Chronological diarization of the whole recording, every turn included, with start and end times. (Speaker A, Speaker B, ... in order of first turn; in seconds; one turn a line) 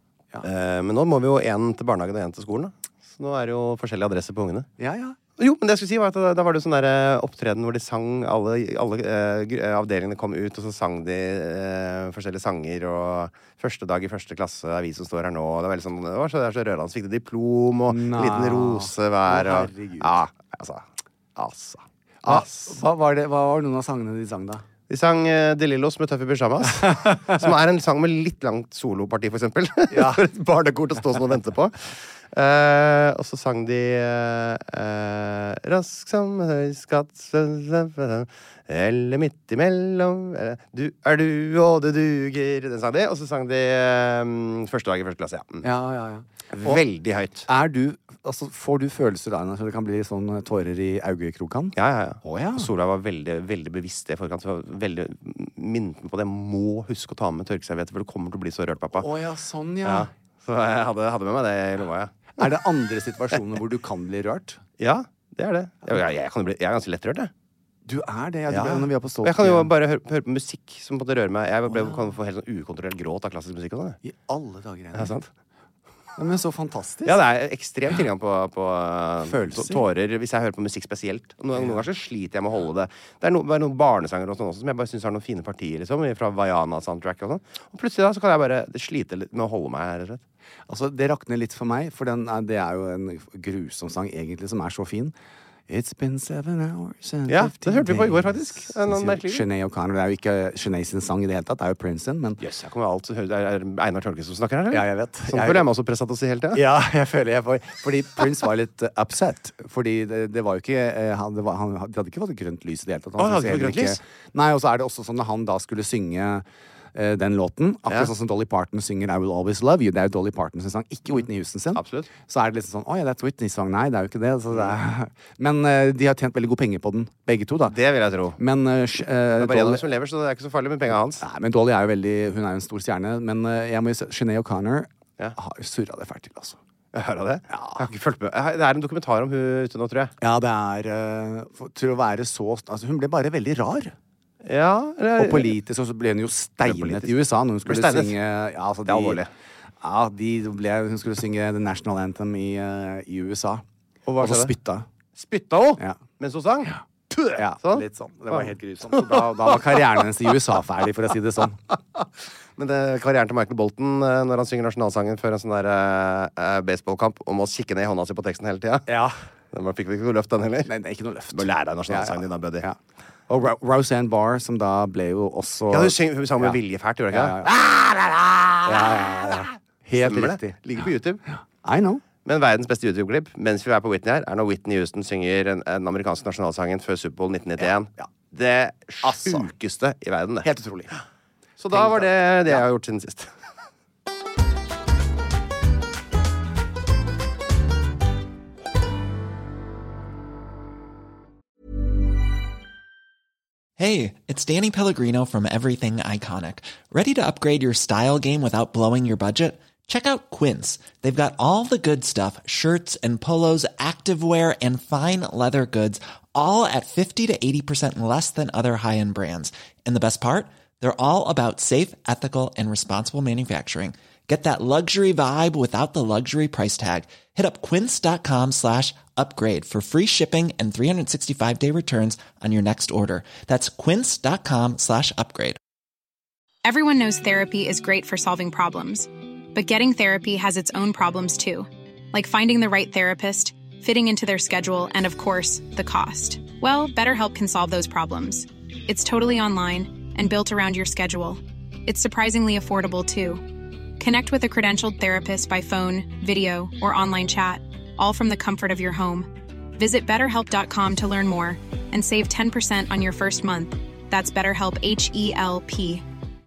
Speaker A: 0.4-4.7
Speaker B: 4.8-5.2
Speaker A: 5.4-22.8
Speaker B: 17.9-20.2
Speaker B: 22.2-24.6
Speaker A: 24.9-45.7
Speaker B: 26.9-27.4
Speaker B: 29.9-30.2
Speaker B: 45.6-46.8
Speaker A: 46.5-47.5
Speaker B: 47.5-52.7
Speaker A: 51.7-59.1
Speaker B: 59.0-60.1
Speaker A: 59.8-62.1
Speaker B: 62.4-64.6
Speaker A: 64.8-67.3
Speaker B: 67.8-69.7
Speaker A: 68.5-74.0
Speaker B: 71.7-72.1
Speaker B: 74.0-75.1
Speaker A: 74.9-75.3
Speaker B: 76.2-77.2
Speaker A: 77.0-90.2
Speaker B: 79.2-79.8
Speaker B: 90.7-95.1
Speaker B: 95.7-102.4
Speaker A: 97.3-99.5
Speaker A: 102.4-106.6
Speaker B: 104.7-105.7
Speaker B: 106.5-116.4
Speaker A: 113.2-114.0
Speaker B: 116.9-127.7
Speaker A: 121.7-122.1
Speaker A: 127.7-128.4
Speaker B: 128.4-129.8
Speaker A: 129.3-131.2
Speaker B: 131.2-136.6
Speaker A: 136.9-140.1
Speaker B: 137.5-137.8
Speaker B: 140.2-143.9
Speaker A: 144.4-145.5
Speaker B: 145.2-149.2
Speaker A: 146.6-148.2
Speaker A: 148.8-149.3
Speaker B: 149.8-154.8
Speaker A: 154.2-154.5
Speaker A: 155.2-159.5
Speaker B: 157.3-161.6
Speaker A: 162.6-168.9
Speaker B: 168.9-169.2
Speaker A: 169.5-170.7
Speaker B: 170.7-176.6
Speaker A: 171.3-172.7
Speaker A: 175.7-179.4
Speaker B: 177.1-177.5
Speaker B: 178.6-180.6
Speaker A: 180.0-181.2
Speaker B: 181.3-182.0
Speaker A: 182.2-191.0
Speaker B: 187.6-188.1
Speaker B: 189.0-189.5
Speaker B: 190.4-190.9
Speaker A: 191.6-193.3
Speaker B: 191.7-192.6
Speaker C: 203.8-235.6
Speaker D: 236.6-266.0